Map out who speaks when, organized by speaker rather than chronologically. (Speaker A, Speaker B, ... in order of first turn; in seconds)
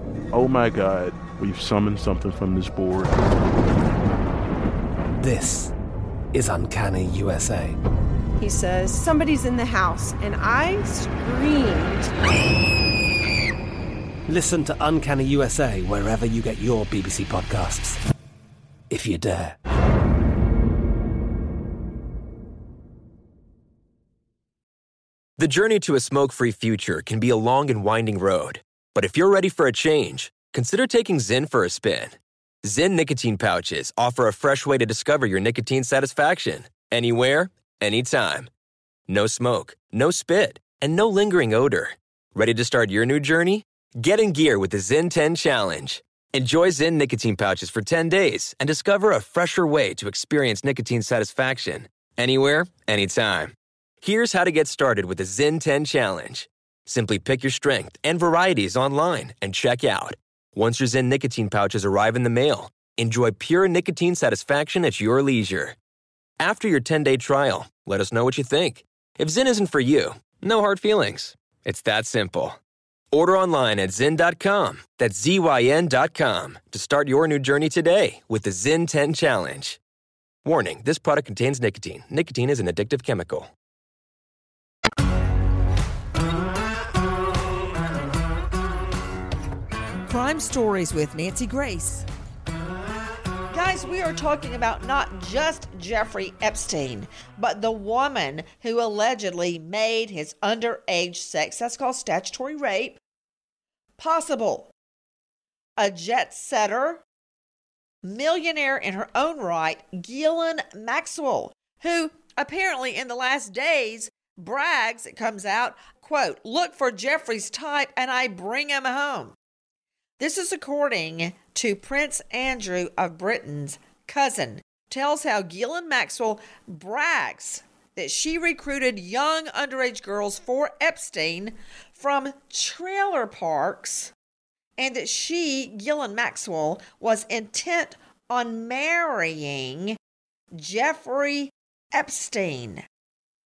Speaker A: 0.3-3.2
Speaker B: 5.2-5.7, 6.3-7.8, 14.3-18.0, 18.9-19.6
Speaker C: 8.4-12.1
Speaker D: 25.4-38.5, 39.1-65.7, 66.4-72.6, 73.1-79.8, 80.4-83.5
Speaker E: 90.0-92.1, 93.5-103.0, 104.0-104.7, 105.8-107.0, 108.0-119.3, 120.2-134.1, 134.8-140.0, 140.5-142.8